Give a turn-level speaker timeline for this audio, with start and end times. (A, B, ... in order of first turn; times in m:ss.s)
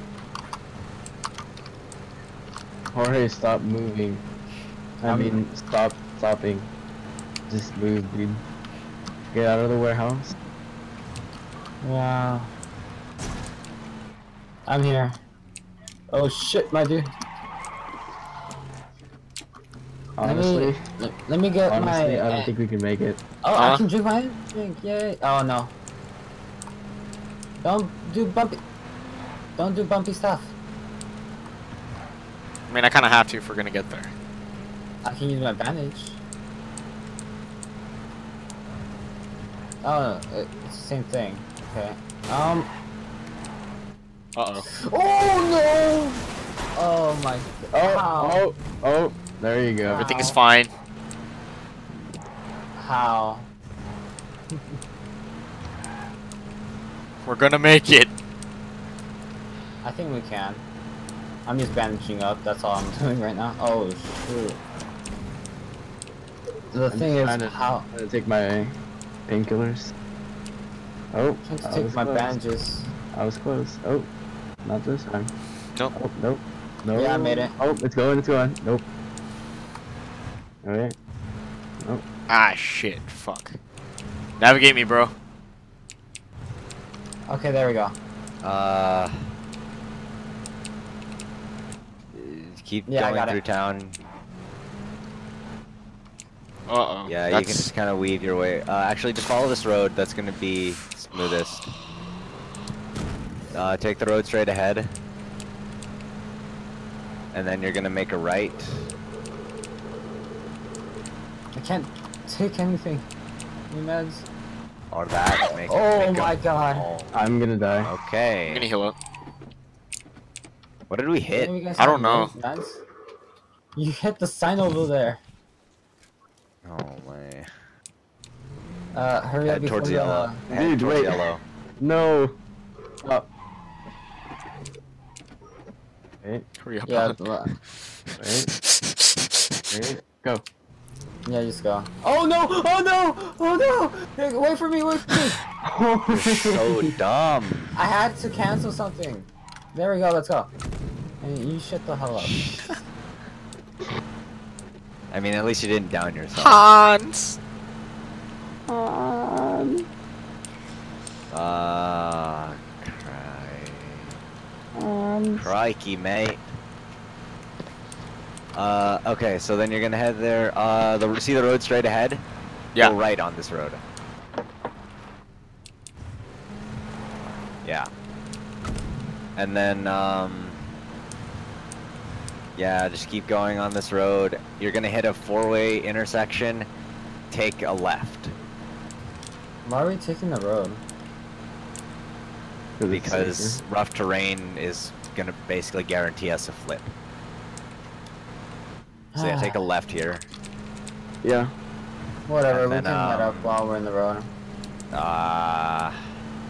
0:02.9-0:04.2 A
0:05.0-0:06.7 A
0:05.1-0:05.4 B
0:07.5-0:08.4 A
0:09.3-0:10.3 A
0:11.8-0:12.5 B
0:14.7-0:15.2 B
0:16.1-0:17.1 B
0:20.2-0:20.8 A
0:20.2-0:22.5 B
0:21.7-0:23.2 A
0:23.4-0:25.7 B
0:23.6-0:23.8 C
0:27.6-0:28.6 B
0:29.6-0:30.5 B
0:32.7-0:34.1 C
0:35.0-0:36.2 B
0:39.8-0:42.7 B
0:44.4-0:44.7 C
0:44.7-0:46.2 B
0:46.8-0:48.4 B
0:47.7-0:50.0 A
0:49.9-0:50.4 B
0:49.9-0:50.7 C
0:52.8-0:53.5 B
0:57.2-0:58.1 C
0:59.8-1:00.6 B
1:01.5-1:04.6 B
1:06.7-1:07.9 B
1:06.9-1:08.8 A
1:09.3-1:09.9 A
1:11.1-1:12.4 A
1:11.4-1:12.9 B
1:13.1-1:14.1 A
1:14.6-1:15.3 A
1:15.9-1:18.8 A
1:16.9-1:17.6 B
1:20.6-1:21.0 A
1:22.3-1:23.6 C
1:24.4-1:25.1 C
1:27.3-1:28.0 B
1:28.4-1:29.3 D
1:32.1-1:34.0 D
1:32.9-1:33.4 B
1:36.7-1:37.7 C
1:37.1-1:41.7 D
1:43.5-1:44.9 D
1:47.3-1:48.9 D
1:51.6-1:53.0 B
1:53.7-1:54.3 B
1:54.9-1:57.2 D
1:55.7-1:56.9 B
1:57.1-1:57.9 A
1:57.8-1:58.7 D
1:58.5-1:59.0 C
2:00.9-2:01.5 D
2:01.3-2:02.8 B
2:01.8-2:02.3 C
2:03.8-2:05.2 B
2:06.6-2:07.5 D
2:08.9-2:10.4 B
2:09.5-2:11.4 D
2:10.5-2:11.3 A
2:11.8-2:12.4 A
2:13.0-2:13.3 A
2:16.6-2:17.6 C
2:16.9-2:17.5 B
2:18.1-2:19.6 C
2:18.2-2:18.5 A
2:19.7-2:20.4 A
2:21.3-2:25.4 B
2:25.6-2:26.9 A
2:26.1-2:27.8 D
2:27.8-2:30.5 B
2:31.2-2:32.8 B
2:32.2-2:32.7 D
2:35.1-2:36.6 D
2:36.4-2:37.4 C
2:38.7-2:39.9 A
2:41.3-2:44.2 D
2:44.8-2:45.5 A
2:45.4-2:46.4 D
2:48.6-2:52.2 D
2:52.8-2:53.8 D
2:57.6-2:57.9 D
2:59.4-3:00.7 D
3:02.6-3:06.7 D
3:07.3-3:08.4 D
3:09.6-3:10.8 B
3:12.8-3:13.6 A
3:12.9-3:16.9 D
3:19.1-3:19.6 B
3:19.2-3:20.3 D
3:21.2-3:21.5 A
3:22.3-3:24.3 B
3:22.5-3:23.6 D
3:24.9-3:26.1 D